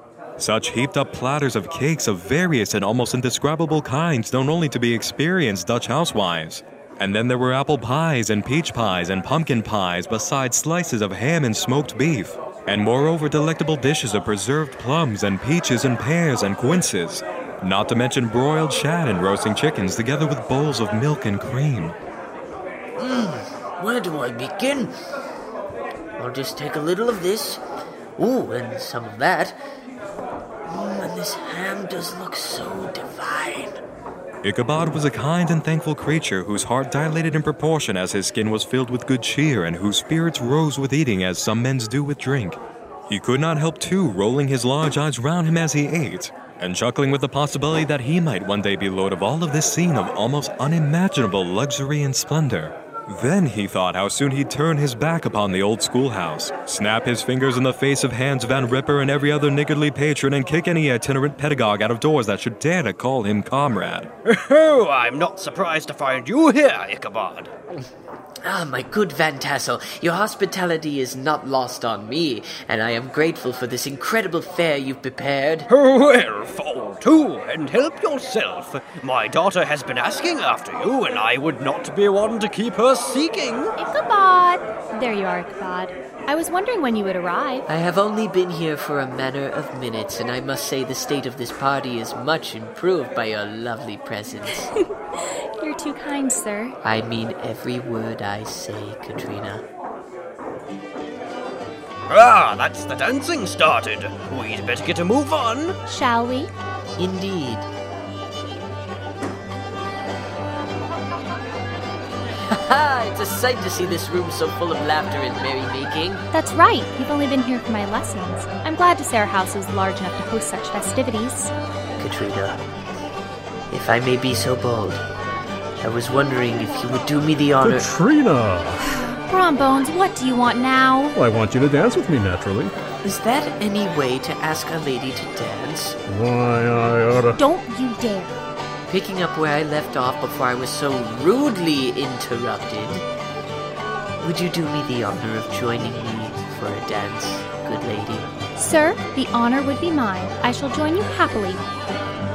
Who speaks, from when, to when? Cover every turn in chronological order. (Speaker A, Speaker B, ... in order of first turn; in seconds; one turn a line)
Speaker A: 0.4-22.0
Speaker B: 23.0-24.9
Speaker B: 26.2-27.6
Speaker B: 28.2-29.6
Speaker B: 30.7-33.8
Speaker A: 34.4-64.1
Speaker C: 64.2-67.5
Speaker B: 68.4-75.7
Speaker C: 75.7-83.8
Speaker D: 83.8-87.6
Speaker B: 87.7-94.7
Speaker D: 94.8-96.8
Speaker B: 96.8-99.6
Speaker C: 102.1-105.8
Speaker D: 105.9-106.5
Speaker B: 107.0-107.7
Speaker B: 112.5-116.2
Speaker D: 116.3-121.5
Speaker B: 122.0-122.6
Speaker B: 123.7-125.0
Speaker B: 125.8-127.9
Speaker E: 127.6-128.8
Speaker D: 128.8-131.2
Speaker E: 131.1-132.7
Speaker B: 133.0-136.0
Speaker E: 136.1-137.4
Speaker D: 137.3-138.4
Speaker B: 138.9-143.1
Speaker B: 144.2-148.3
Speaker D: 148.6-151.6